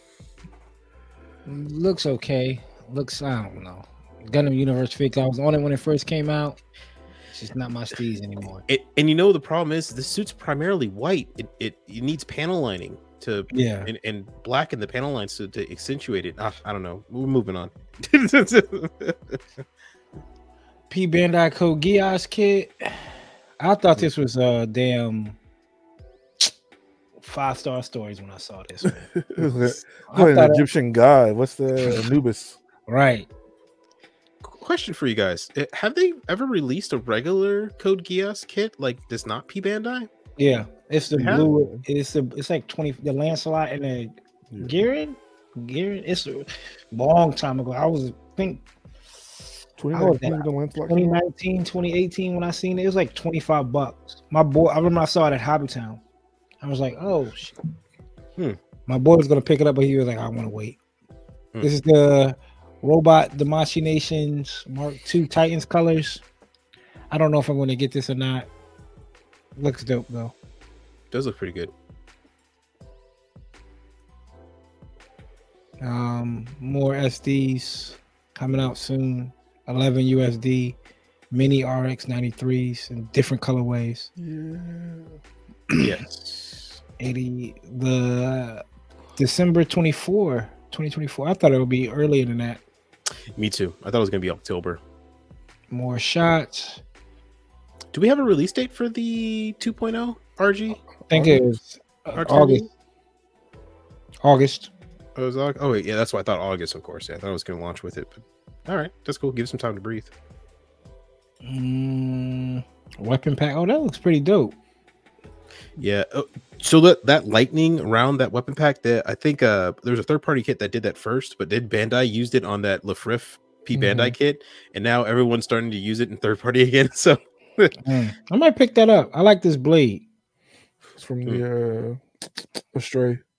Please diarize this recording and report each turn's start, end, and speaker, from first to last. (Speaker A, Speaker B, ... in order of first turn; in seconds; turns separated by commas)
Speaker A: 1.4-6.6, Speaker A: 7.3-8.6, Speaker B: 8.7-19.4, Speaker A: 13.5-13.9, Speaker A: 20.9-25.4, Speaker A: 27.2-30.7, Speaker C: 29.2-32.6, Speaker A: 31.8-32.0, Speaker A: 32.9-33.3, Speaker B: 34.4-40.1, Speaker A: 40.4-48.6, Speaker C: 41.1-41.8, Speaker B: 41.2-41.5, Speaker C: 49.8-51.1, Speaker A: 49.9-56.0, Speaker A: 56.6-57.6, Speaker A: 58.9-60.8, Speaker A: 61.6-66.2, Speaker A: 67.1-68.5, Speaker A: 69.5-70.3, Speaker B: 71.1-71.7, Speaker A: 75.8-80.8, Speaker A: 81.3-84.1, Speaker C: 84.2-85.2, Speaker B: 85.8-86.8, Speaker A: 87.0-88.6, Speaker A: 89.2-92.6, Speaker B: 93.3-94.8, Speaker A: 95.7-96.8, Speaker B: 97.9-100.8, Speaker A: 101.1-102.7, Speaker C: 101.1-101.5, Speaker B: 102.1-102.7, Speaker A: 104.2-104.7, Speaker B: 105.2-110.1, Speaker A: 111.4-114.5, Speaker B: 115.8-127.7, Speaker C: 123.7-124.1, Speaker A: 127.8-130.1, Speaker C: 131.0-133.2